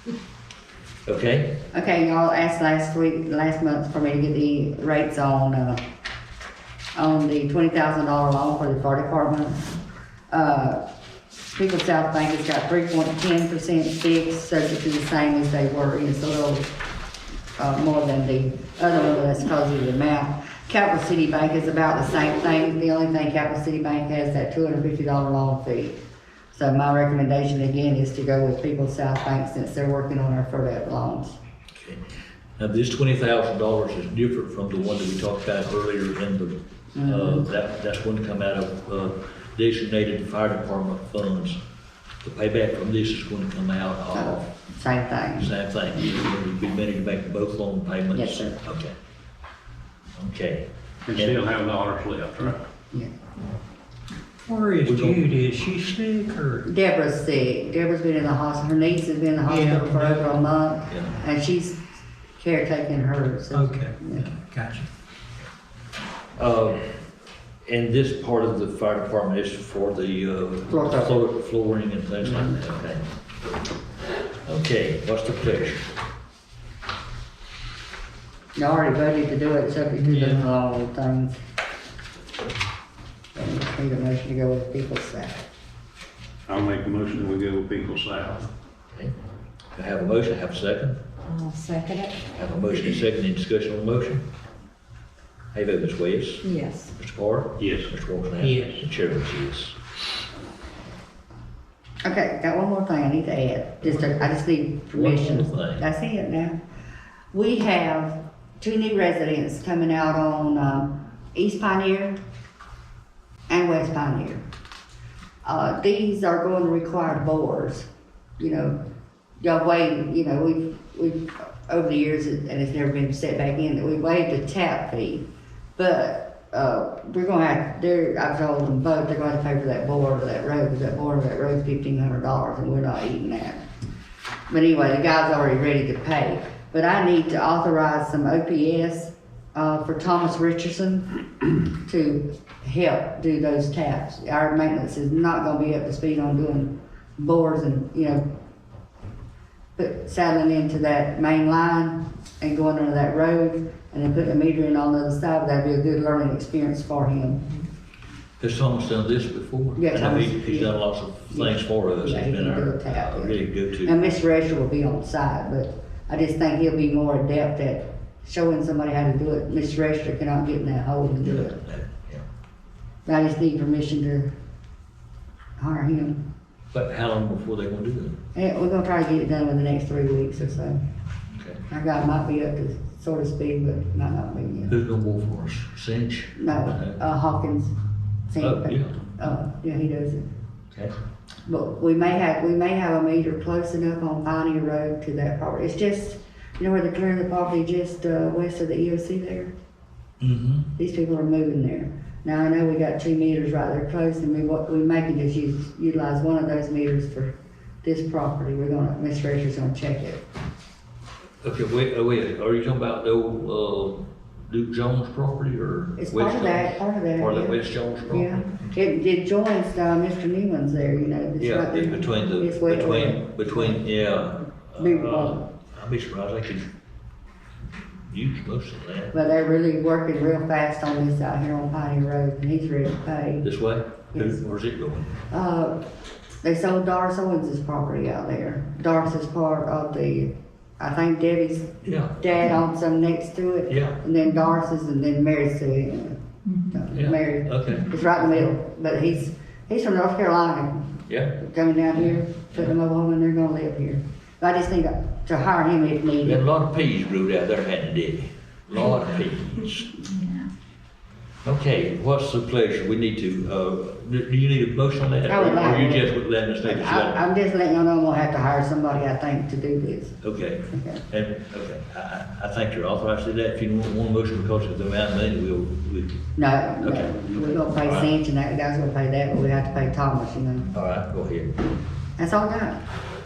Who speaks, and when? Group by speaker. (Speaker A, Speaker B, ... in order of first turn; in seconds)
Speaker A: 1.1-1.6, 31.8-32.0, 32.6-41.6, 42.2-44.5, 45.4-49.0, 50.2-51.4, 54.8-55.3, 60.9-61.2, 66.4-66.9, 67.7-73.1, 74.4-75.9, 80.1-80.5, 89.7-91.0, 92.3-94.2, 95.5-99.8, 104.9-105.8, 158.4-164.0, 171.2-172.2, 176.7-178.2, 181.4-181.6, 184.7-187.0, 188.4-189.0, 200.2-200.7, 211.4-218.8, 221.4-226.7, 228.1-229.2, 233.4-235.2, 241.8-242.4, 243.7-244.0, 246.9-247.9, 251.1-251.4, 256.2-260.0, 261.4-267.2, 270.2-276.2, 276.8-278.1, 280.7-281.6
Speaker B: 1.7-5.8, 7.0-9.7, 10.3-10.8, 11.4-16.7, 17.6-26.0, 26.5-31.4, 37.0-37.5, 44.1-45.5, 48.1-48.6, 56.7-64.3, 70.7-71.2, 78.6-81.4, 83.3-85.5, 102.0-106.6, 107.3-112.2, 113.5-114.4, 115.4-117.9, 118.4-118.8, 119.4-133.7, 134.5-148.2, 149.8-157.5, 159.8-160.8, 161.3-171.6, 173.1-174.3, 175.6-176.2, 178.3-180.8, 181.7-184.8, 186.4-187.8, 188.3-190.2, 191.5-199.5, 200.8-210.2, 216.0-223.8, 224.8-225.5, 229.1-233.4, 234.1-234.4, 235.3-235.8, 236.4-256.4, 265.3-270.2, 270.7-271.0, 276.4-280.7, 282.2-282.8
Speaker C: 51.1-52.6, 86.5-88.5, 97.6-97.9
Speaker D: 54.5-56.7, 59.5-60.3, 63.5-64.9, 98.4-98.8
Speaker E: 91.3-92.3, 96.4-96.9, 246.5-246.8